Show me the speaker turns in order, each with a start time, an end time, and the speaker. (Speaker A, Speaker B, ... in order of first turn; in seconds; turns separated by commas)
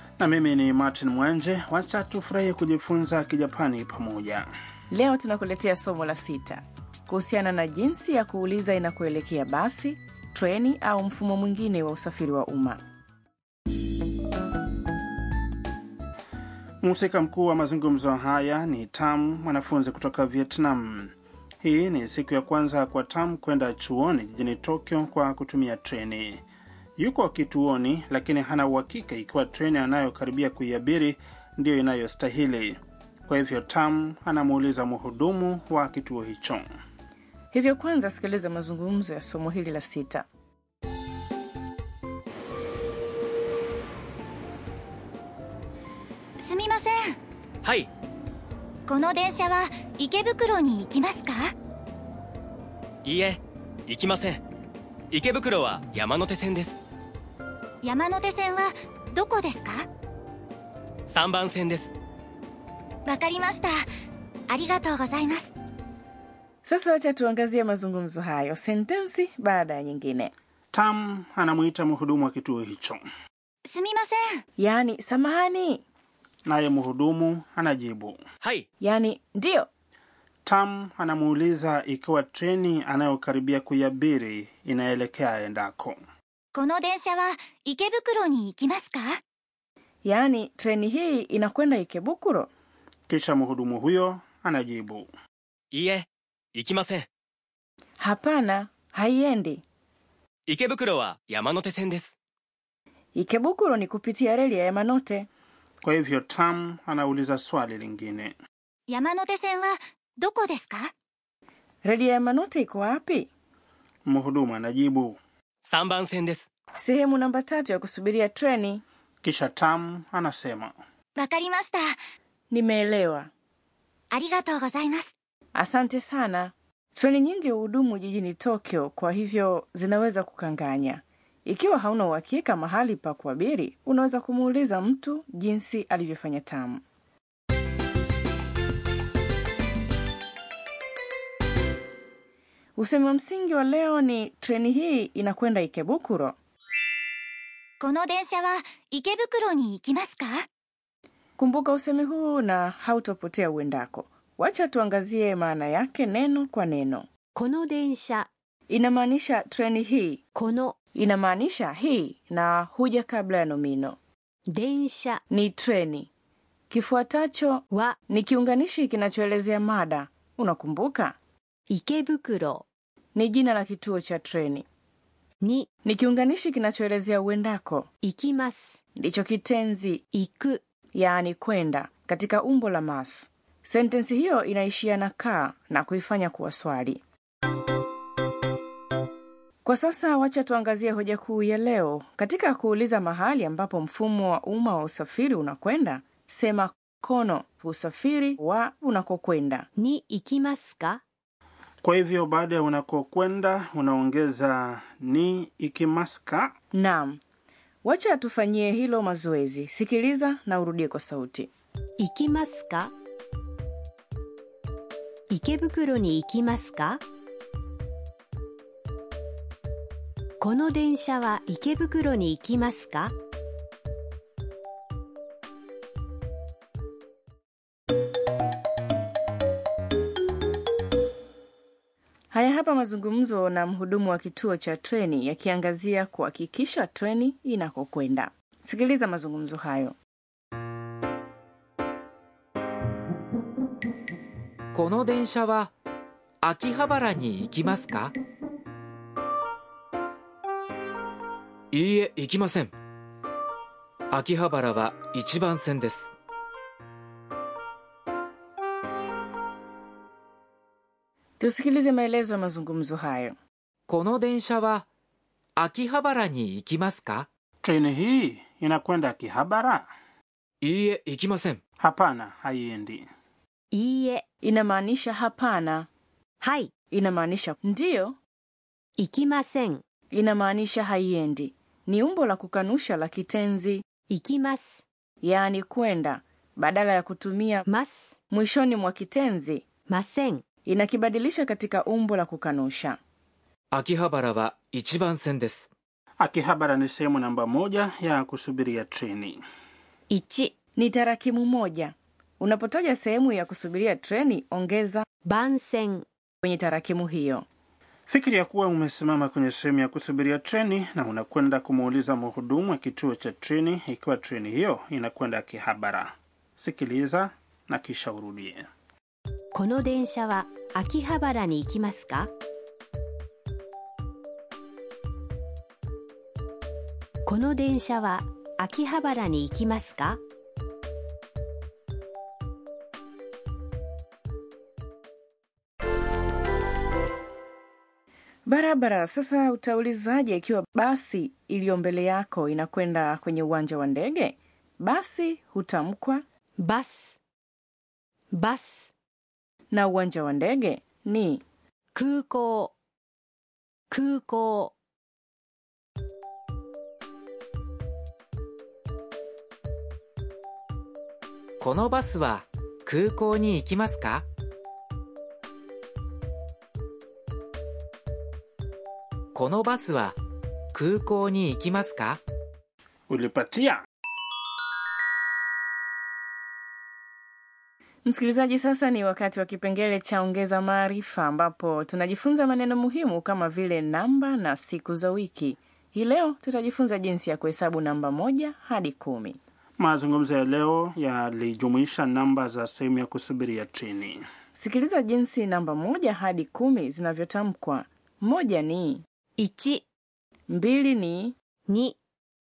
Speaker A: 0.2-4.5, Speaker B: 4.9-12.8, Speaker A: 16.8-26.4, Speaker A: 27.0-36.6, Speaker B: 37.5-40.3, Speaker C: 46.4-47.2, Speaker C: 48.9-51.5, Speaker D: 53.0-54.4, Speaker D: 55.1-56.8, Speaker C: 57.8-59.8, Speaker D: 61.1-61.9, Speaker C: 63.1-63.8, Speaker C: 64.5-65.5, Speaker B: 66.6-70.3, Speaker A: 70.7-73.0, Speaker C: 73.7-74.4, Speaker B: 74.6-75.8, Speaker A: 76.5-78.2, Speaker B: 78.8-79.7, Speaker A: 80.5-86.0, Speaker C: 86.5-89.2, Speaker B: 90.0-92.5, Speaker A: 93.1-95.1, Speaker D: 95.8-96.0, Speaker D: 96.6-97.1, Speaker B: 98.0-99.6, Speaker D: 100.5-102.0, Speaker B: 103.1-105.3, Speaker A: 105.8-108.3, Speaker C: 108.9-110.9, Speaker B: 111.8-113.3, Speaker A: 114.1-115.2, Speaker D: 115.7-116.4, Speaker B: 116.8-118.8, Speaker A: 119.2-120.7, Speaker C: 121.2-121.9, Speaker B: 122.5-123.3, Speaker C: 124.1-125.1, Speaker B: 125.5-136.8, Speaker B: 142.8-146.3, Speaker C: 147.8-150.4, Speaker B: 151.4-157.1, Speaker E: 157.3-158.3, Speaker B: 158.7-160.2, Speaker E: 160.3-160.7, Speaker B: 160.9-164.0, Speaker E: 164.5-165.2, Speaker B: 165.3-166.1, Speaker B: 166.7-171.1, Speaker E: 167.7-168.0, Speaker E: 171.7-172.6, Speaker B: 173.1-174.7, Speaker E: 175.4-175.7, Speaker B: 175.8-177.9, Speaker E: 178.0-178.8, Speaker B: 178.9-180.0, Speaker E: 180.1-180.6, Speaker B: 180.9-187.0, Speaker B: 189.6-199.7, Speaker E: 199.8-201.0, Speaker A: 201.8-206.5, Speaker B: 206.7-207.2, Speaker B: 207.8-211.5, Speaker E: 212.0-212.9, Speaker E: 215.3-217.0, Speaker E: 220.4-223.1, Speaker B: 232.3-239.9, Speaker F: 244.7-245.7, Speaker F: 246.4-248.1, Speaker F: 251.7-252.7, Speaker F: 254.1-256.1, Speaker B: 261.4-263.4, Speaker F: 263.9-264.9, Speaker F: 265.6-267.3, Speaker A: 267.6-269.9, Speaker F: 270.6-271.6, Speaker A: 271.8-273.1, Speaker E: 273.7-274.2, Speaker B: 274.4-275.9, Speaker E: 276.4-276.7, Speaker B: 276.9-278.2, Speaker E: 279.0-279.8, Speaker B: 280.1-283.8, Speaker E: 284.1-284.8, Speaker B: 285.2-287.7, Speaker E: 287.7-288.2, Speaker B: 288.3-289.6, Speaker E: 289.9-290.4, Speaker B: 290.6-293.0, Speaker F: 293.7-295.7, Speaker A: 296.2-299.4, Speaker E: 300.1-300.5, Speaker B: 300.8-305.1, Speaker E: 305.2-306.1, Speaker B: 306.4-307.5, Speaker A: 308.1-318.7, Speaker E: 319.5-322.3, Speaker E: 327.2-330.2, Speaker B: 338.5-346.2, Speaker E: 346.6-347.2, Speaker E: 348.3-348.9, Speaker B: 349.7-351.4, Speaker E: 351.9-352.7, Speaker E: 353.9-354.7, Speaker F: 361.6-364.2, Speaker F: 369.3-370.2, Speaker F: 370.7-372.2, Speaker A: 373.1-373.8, Speaker B: 378.1-389.4, Speaker A: 389.8-394.2, Speaker B: 394.5-399.0, Speaker E: 399.4-399.8, Speaker B: 400.5-401.4, Speaker E: 401.7-402.0